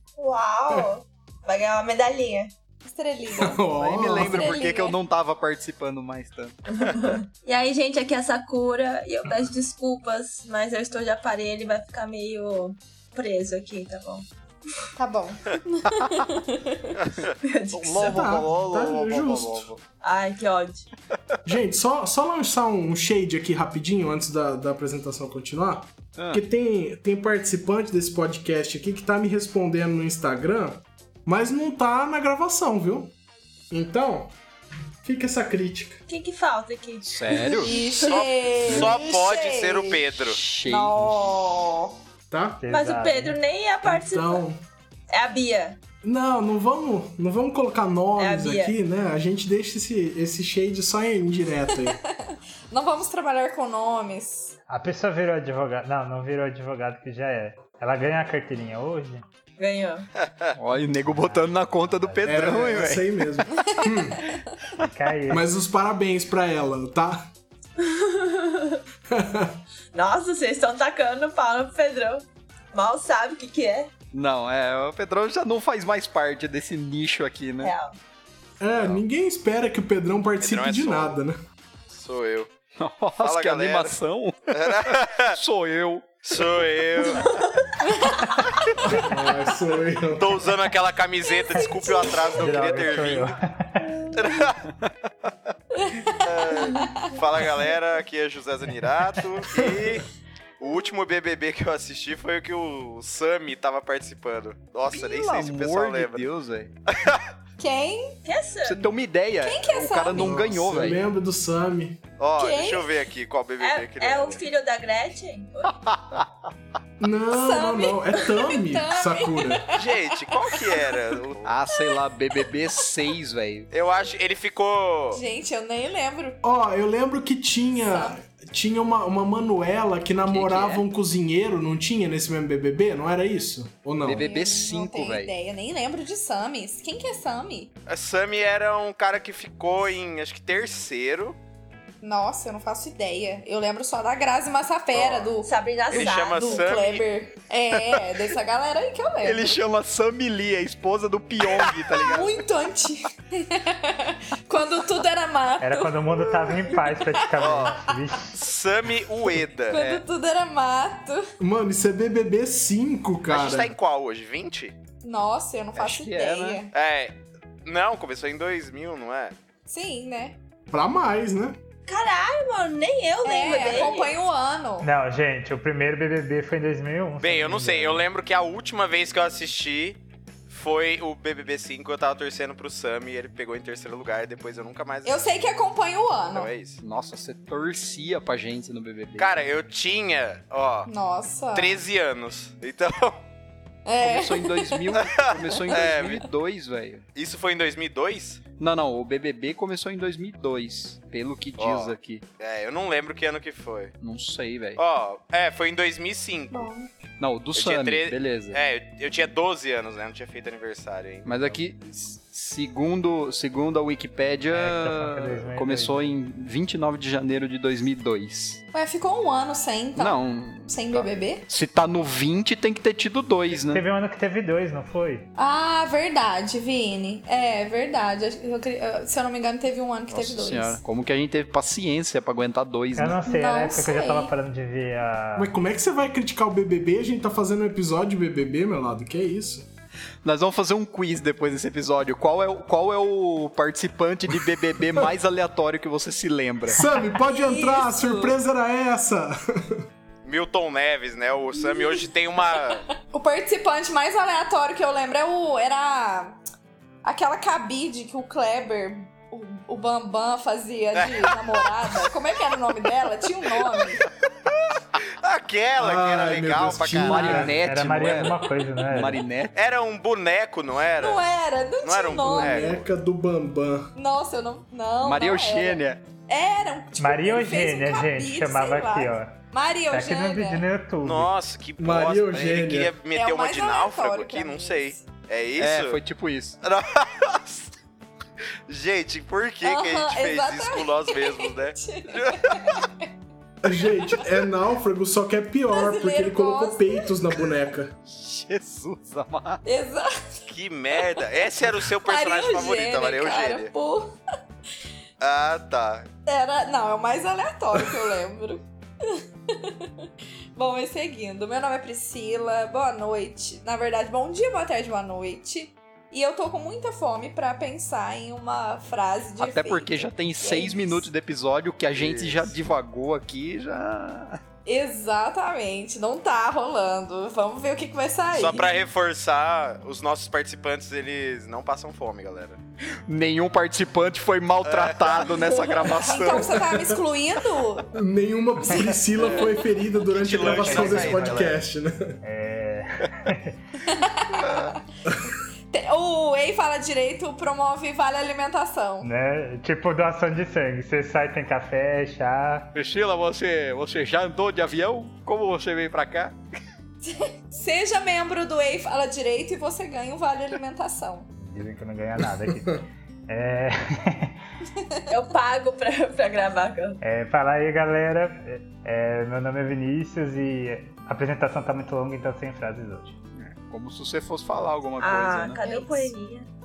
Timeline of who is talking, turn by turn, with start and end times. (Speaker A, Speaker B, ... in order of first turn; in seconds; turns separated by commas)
Speaker A: 0.2-2.5, Speaker B: 2.9-3.7, Speaker C: 3.3-4.5, Speaker D: 3.8-6.6, Speaker B: 4.2-5.0, Speaker A: 6.7-14.3, Speaker B: 15.0-16.9, Speaker A: 17.4-18.3, Speaker D: 17.7-19.8, Speaker C: 18.0-19.7, Speaker A: 20.0-20.9, Speaker C: 21.4-33.1, Speaker D: 26.2-26.4, Speaker C: 33.7-34.3, Speaker C: 35.0-36.0, Speaker A: 36.1-38.1, Speaker D: 37.1-37.7, Speaker B: 37.5-40.0, Speaker E: 38.1-40.4, Speaker D: 40.2-41.3, Speaker A: 40.7-41.9, Speaker C: 42.3-42.6, Speaker F: 42.6-43.4, Speaker A: 42.7-44.4, Speaker C: 43.8-44.6, Speaker A: 45.1-45.8, Speaker C: 46.0-52.0, Speaker A: 48.2-48.8, Speaker B: 51.7-54.6, Speaker F: 54.7-59.2, Speaker A: 59.6-60.1, Speaker D: 60.5-63.4, Speaker F: 62.1-62.4, Speaker C: 62.3-64.2, Speaker B: 63.7-64.2, Speaker F: 64.8-65.5, Speaker C: 65.3-67.3, Speaker A: 67.8-68.8, Speaker C: 69.1-69.6, Speaker A: 69.9-73.9, Speaker D: 74.1-77.7, Speaker A: 77.6-78.0, Speaker C: 78.6-81.4, Speaker E: 78.8-79.0, Speaker E: 80.4-81.2, Speaker E: 81.9-82.5, Speaker D: 82.8-86.1, Speaker E: 83.2-84.0, Speaker E: 84.5-85.4, Speaker E: 86.2-87.4, Speaker B: 87.9-88.2, Speaker C: 88.9-90.5, Speaker E: 90.1-93.3, Speaker B: 91.7-92.2, Speaker F: 92.3-93.9, Speaker E: 94.1-94.6, Speaker B: 95.8-97.1, Speaker E: 96.2-100.1, Speaker E: 100.6-106.2, Speaker D: 104.9-106.7, Speaker E: 106.9-107.2, Speaker B: 107.6-108.2, Speaker A: 108.2-108.8, Speaker D: 108.6-111.0, Speaker B: 109.4-110.4, Speaker C: 110.2-112.0, Speaker E: 112.2-114.4, Speaker B: 112.4-112.9, Speaker A: 113.6-115.8, Speaker D: 115.9-116.3, Speaker C: 117.0-119.6, Speaker B: 117.3-121.0, Speaker E: 119.7-121.5, Speaker D: 121.5-123.7, Speaker B: 121.7-122.4, Speaker E: 123.7-125.2, Speaker B: 125.1-126.4, Speaker C: 126.4-134.3, Speaker B: 127.9-128.2, Speaker D: 130.3-130.8, Speaker D: 134.0-135.3, Speaker B: 134.1-137.7, Speaker E: 137.9-141.4, Speaker B: 142.0-149.6, Speaker A: 145.4-146.7, Speaker E: 145.9-147.1, Speaker D: 149.2-152.3, Speaker E: 151.6-152.2, Speaker B: 152.0-156.1, Speaker F: 155.6-158.3, Speaker B: 156.8-157.9, Speaker E: 157.4-159.8, Speaker B: 159.7-161.2, Speaker D: 159.7-160.0, Speaker C: 161.4-163.7, Speaker E: 163.3-164.8, Speaker B: 165.0-166.7, Speaker D: 165.8-166.6, Speaker E: 166.7-169.3, Speaker B: 169.7-170.4, Speaker C: 170.7-171.6, Speaker A: 171.9-174.2, Speaker B: 173.2-174.9, Speaker F: 174.8-178.0, Speaker E: 177.2-185.3, Speaker B: 185.1-186.5, Speaker E: 186.3-186.8, Speaker D: 186.8-189.4, Speaker E: 189.2-190.9, Speaker B: 190.9-191.8, Speaker E: 191.5-193.2, Speaker B: 193.9-194.9, Speaker D: 194.0-197.1, Speaker E: 195.0-196.3, Speaker E: 197.2-198.4, Speaker D: 198.6-202.2, Speaker E: 201.6-203.9, Speaker D: 204.0-204.8, Speaker E: 204.8-206.7, Speaker B: 206.5-206.9, Speaker D: 207.2-208.6, Speaker E: 207.6-211.6, Speaker D: 211.2-218.6, Speaker F: 214.5-216.2, Speaker B: 218.7-221.4, Speaker D: 220.0-223.8, Speaker F: 223.7-225.3, Speaker B: 225.4-230.8, Speaker D: 230.1-233.2, Speaker F: 232.9-235.5, Speaker B: 233.2-234.3, Speaker C: 235.4-239.7, Speaker D: 240.2-246.8, Speaker C: 246.7-249.8, Speaker B: 247.2-248.3, Speaker E: 250.2-252.8, Speaker B: 253.1-256.4, Speaker B: 257.0-264.0, Speaker E: 261.0-261.4, Speaker E: 265.2-267.5, Speaker C: 265.8-267.6, Speaker D: 267.0-269.6, Speaker F: 267.1-269.2, Speaker E: 269.6-271.2, Speaker B: 271.0-272.6, Speaker E: 271.8-272.9, Speaker C: 272.2-273.9, Speaker B: 273.9-280.6, Speaker D: 275.0-276.1, Speaker F: 277.0-279.4, Speaker F: 279.9-281.3, Speaker E: 281.0-286.0, Speaker C: 281.8-282.9, Speaker B: 283.1-285.0, Speaker D: 285.6-286.6, Speaker E: 286.6-287.7, Speaker E: 288.7-292.8, Speaker B: 289.6-293.1, Speaker C: 293.6-297.9, Speaker B: 295.7-297.1, Speaker D: 298.1-299.6, Speaker B: 299.6-300.4, Speaker E: 300.5-303.7, Speaker B: 302.1-304.1, Speaker E: 305.2-306.1, Speaker B: 306.3-309.9, Speaker B: 310.6-321.1, Speaker D: 319.4-324.4, Speaker E: 322.0-322.5, Speaker B: 324.7-328.7, Speaker E: 328.3-332.6, Speaker D: 333.1-336.7, Speaker E: 334.6-335.4, Speaker A: 335.6-336.0, Speaker B: 336.0-337.9, Speaker C: 336.4-337.0, Speaker C: 337.9-342.2, Speaker E: 339.2-341.6, Speaker F: 340.4-341.4, Speaker F: 342.2-343.5, Speaker B: 343.8-344.7, Speaker B: 345.7-349.1, Speaker F: 349.0-352.7, Speaker D: 352.7-356.4, Speaker B: 357.0-361.3, Speaker F: 361.4-364.4, Speaker C: 362.4-362.8, Speaker A: 365.1-367.0, Speaker F: 367.0-373.2, Speaker D: 373.4-375.6, Speaker A: 375.0-376.5, Speaker B: 375.6-376.1